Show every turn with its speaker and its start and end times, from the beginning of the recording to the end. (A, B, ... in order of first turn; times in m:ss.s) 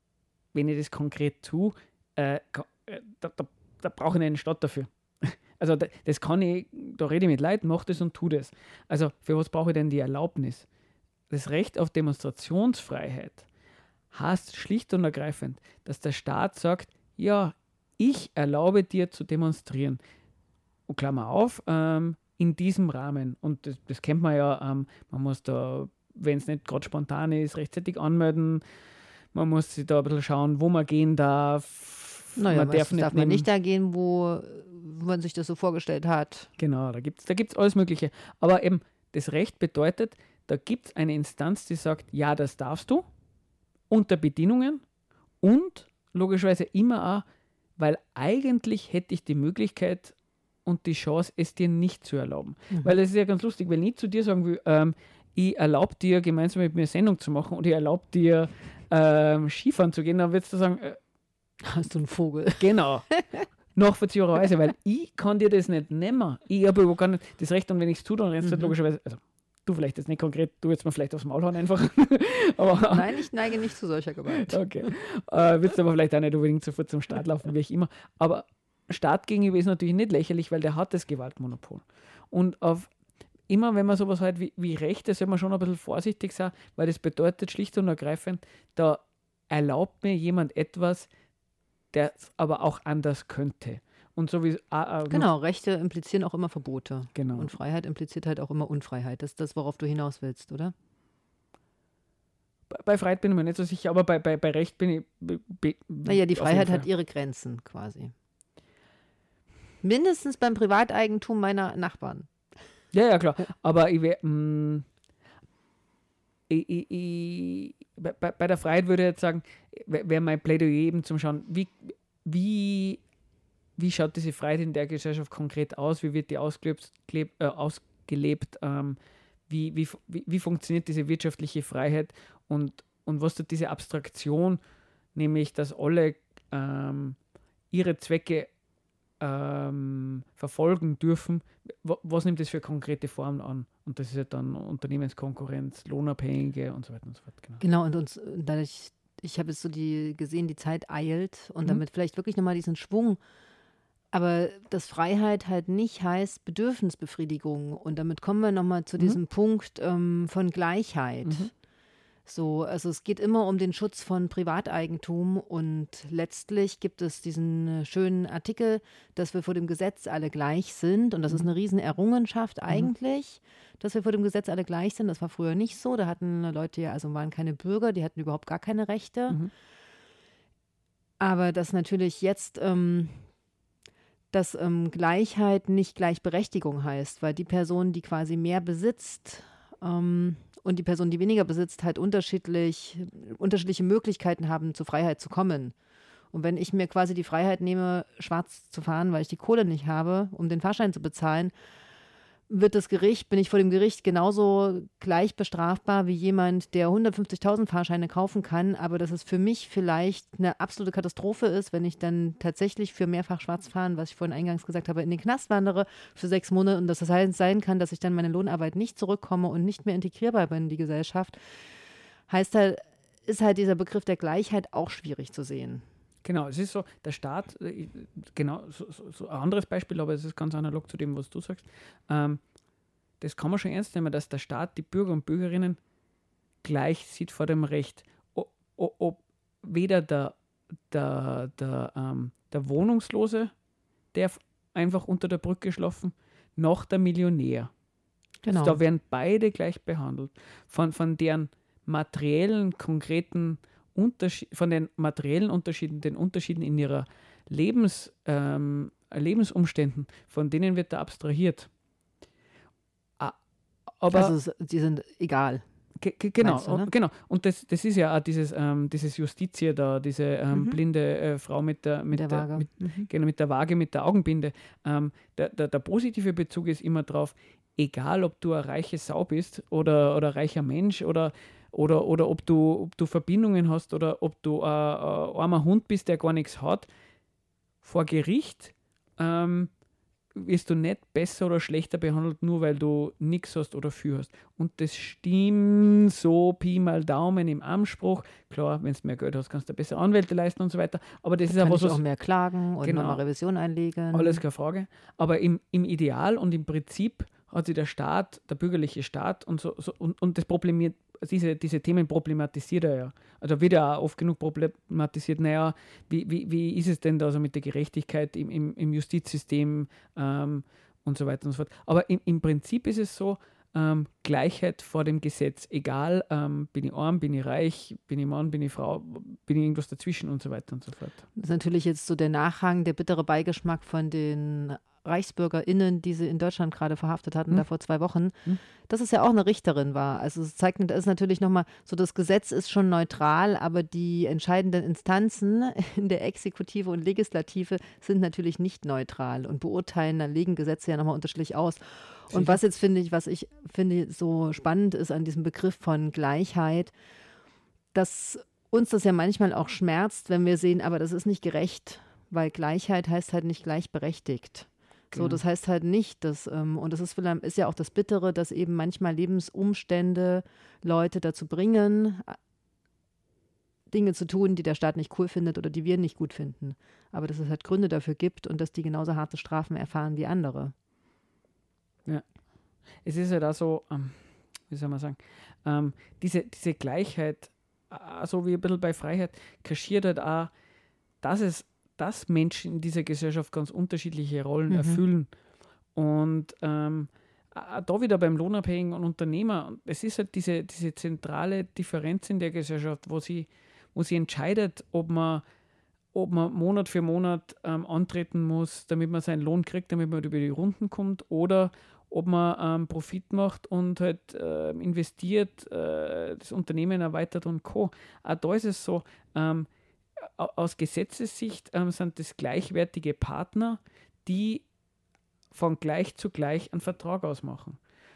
0:00.5-0:10.6 A
0:11.3-0:13.5 A
0:14.1-0:20.0 A
0:20.9-0:28.6 A
0:29.3-0:33.5 A
0:32.4-0:36.5 B
0:36.6-0:43.0 A
0:43.9-0:44.8 A
0:45.4-0:47.2 A
0:47.8-1:01.0 A
1:01.6-1:03.4 B
1:02.6-1:03.0 A
1:03.7-1:13.3 A
1:08.4-1:08.7 B
1:12.9-1:14.9 B
1:14.3-1:22.9 A
1:23.5-1:31.1 A
1:31.9-1:35.3 A
1:35.1-1:40.7 B
1:37.1-1:37.5 A
1:42.7-1:46.9 A
1:46.0-1:48.1 B
1:49.8-1:52.3 B
1:52.9-1:54.8 A
1:56.5-2:03.0 A
2:03.8-2:14.6 A
2:15.1-2:17.2 A
2:17.7-2:18.5 A
2:19.2-2:27.6 A
2:27.6-2:33.2 B
2:34.1-2:41.5 B
2:41.2-2:41.5 A
2:42.2-2:59.4 B
3:01.2-3:03.2 B
3:04.3-3:15.7 B
3:16.3-3:21.5 B
3:22.5-3:41.4 B
3:42.3-3:45.8 B
3:46.2-3:52.4 A
3:53.2-3:55.8 A
3:56.6-4:00.4 A
4:00.9-4:03.5 A
4:04.1-4:07.7 A
4:08.4-4:08.8 B
4:08.5-4:21.7 A
4:24.0-4:24.3 A
4:24.1-4:25.6 B
4:26.0-4:46.9 A
4:26.4-4:26.9 B
4:30.5-4:30.8 B
4:32.1-4:33.1 B
4:47.8-4:49.7 A
4:50.3-5:02.0 A
5:01.5-5:04.4 B
5:02.8-5:03.2 A
5:04.1-5:31.2 A
5:31.4-5:56.9 B
5:52.3-5:52.6 A
5:57.9-6:12.4 B
6:05.1-6:05.4 A
6:13.9-6:20.7 B
6:23.0-6:30.5 A
6:31.2-6:35.3 A
6:34.7-6:35.0 B
6:35.9-6:45.4 A
6:46.1-7:04.6 A
7:05.5-7:07.8 A